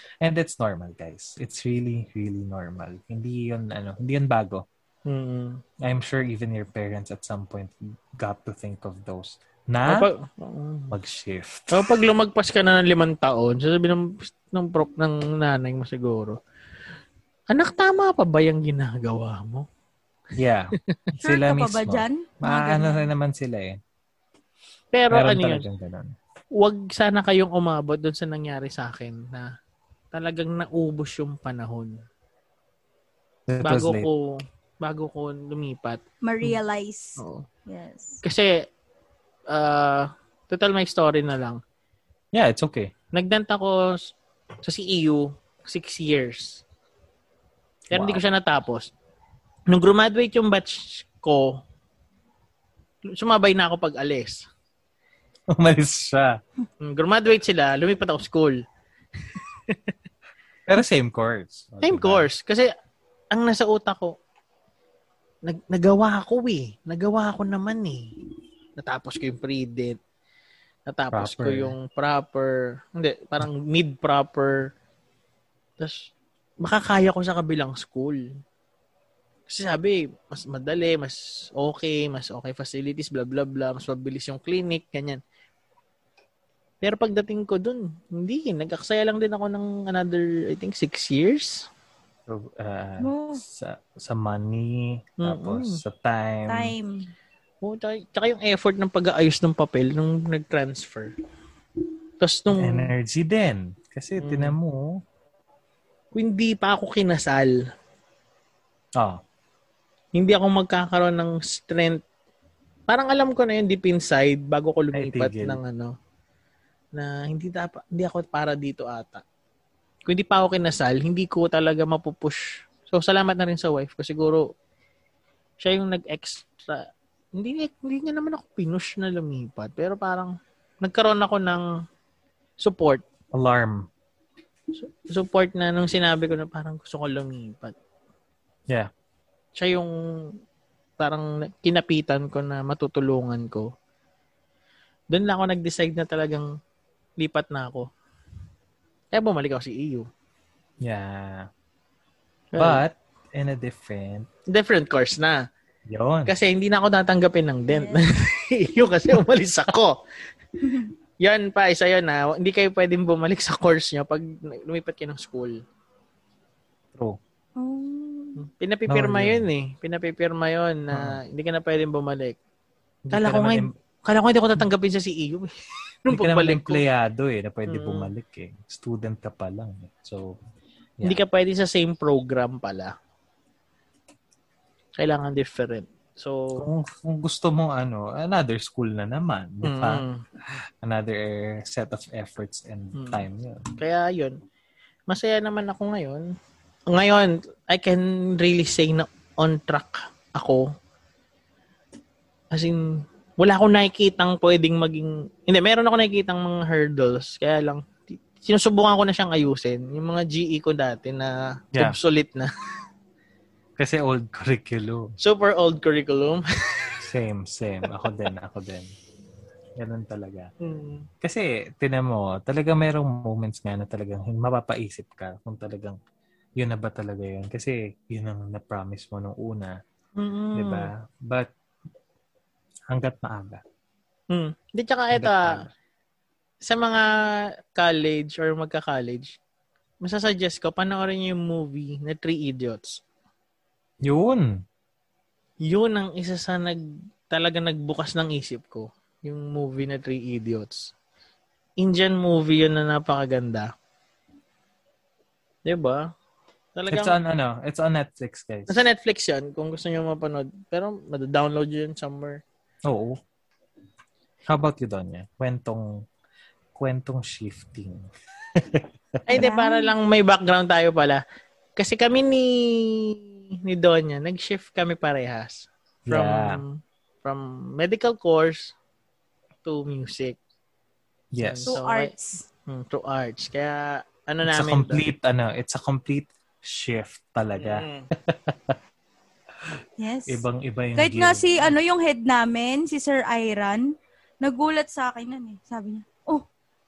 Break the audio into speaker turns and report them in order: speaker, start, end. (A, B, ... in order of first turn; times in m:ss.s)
0:00.2-0:04.6 A
0:05.1-0:05.6 B
0:05.8-0:10.1 A
0:09.9-0:11.0 B
0:10.9-0:11.7 A
0:11.7-0:16.4 B
0:17.5-0:19.7 B
0:20.4-0:23.8 A
0:21.2-0:23.1 C
0:24.9-0:25.6 B
0:25.1-0:26.1 A
0:26.6-0:29.5 B
0:30.1-0:31.9 B
0:33.5-0:34.1 A
0:33.6-0:36.6 B
0:36.2-0:38.2 C
0:37.2-0:37.5 B
0:38.2-0:38.6 B
0:39.5-0:41.6 B
0:42.3-0:42.9 A
0:43.1-0:46.6 B
0:47.9-0:48.9 B
0:47.9-0:48.2 A
0:49.7-0:51.6 B
0:53.1-0:54.4 B
0:55.5-0:56.4 A
0:56.8-0:58.6 B
0:59.3-0:59.9 B
1:00.7-1:02.3 A
1:01.8-1:02.7 B
1:03.3-1:04.2 B
1:05.4-1:08.1 B
1:08.8-1:10.0 B
1:10.9-1:14.7 B
1:11.1-1:11.8 A
1:15.8-1:16.1 B
1:16.6-1:18.2 B
1:19.5-1:25.2 B
1:26.8-1:31.7 B
1:32.3-1:36.7 A
1:33.0-1:33.4 C
1:35.2-1:35.8 B
1:36.5-1:37.1 C
1:37.6-1:41.1 B
1:42.2-1:42.9 B
1:42.5-1:45.0 A
1:44.2-1:44.6 B
1:46.2-1:47.6 B
1:50.2-1:52.0 B
1:52.9-1:55.9 B
1:54.9-1:55.6 A
1:57.0-1:59.2 B
2:00.1-2:04.4 B
2:05.6-2:11.7 B
2:12.6-2:13.0 B
2:13.3-2:13.9 A
2:14.8-2:17.8 B
2:19.6-2:19.9 B
2:21.0-2:23.7 B
2:25.1-2:26.5 B
2:27.2-2:27.9 B
2:29.1-2:30.1 B
2:30.8-2:31.5 A
2:32.5-2:32.8 B
2:32.6-2:34.3 A
2:34.5-2:35.4 B
2:35.9-2:36.3 A
2:36.3-2:40.0 B
2:37.7-2:38.0 C
2:40.6-2:40.9 C
2:41.2-2:45.6 B
2:46.9-2:47.2 A
2:47.6-2:48.4 C
2:48.4-2:52.4 B
2:48.9-2:49.5 A
2:50.9-2:51.2 A
2:53.0-2:53.7 A
2:53.1-2:55.5 B
2:56.0-2:56.8 B
2:56.1-3:00.4 A
2:57.7-2:58.1 B
3:01.0-3:02.9 B
3:05.0-3:06.6 B
3:06.6-3:13.7 A
3:09.6-3:10.2 B
3:13.0-3:13.2 B
3:13.8-3:14.4 B
3:15.1-3:16.3 B
3:16.9-3:20.7 B
3:22.5-3:32.5 B
3:33.8-3:35.2 A
3:35.2-3:37.0 B
3:37.0-3:38.9 A
3:39.8-3:40.5 A
3:40.6-3:41.1 B
3:41.2-3:46.0 A
3:46.6-3:49.8 A
3:50.2-3:50.9 B
3:50.6-3:51.5 A
3:52.9-3:53.6 A
3:54.3-3:55.6 B
3:55.1-3:55.7 A
3:56.6-3:59.4 B
4:00.0-4:03.0 B
4:04.0-4:04.6 A
4:05.7-4:10.9 B
4:11.8-4:13.7 B
4:15.7-4:16.1 B
4:16.8-4:17.2 B
4:16.9-4:18.9 A
4:18.7-4:22.4 B
4:22.9-4:23.2 A
4:24.5-4:25.9 A
4:26.8-4:29.4 A
4:29.3-4:31.2 B
4:29.3-4:29.9 C
4:31.8-4:38.8 B
4:36.1-4:36.6 A
4:39.6-4:40.4 B
4:41.3-4:41.7 A
4:41.4-4:42.1 B
4:41.7-4:42.4 C
4:42.7-4:45.0 B
4:44.5-4:48.8 A
4:47.6-4:48.1 B
4:50.0-4:50.4 C
4:50.3-4:51.7 A
4:51.0-4:53.9 C
4:54.4-4:56.4 C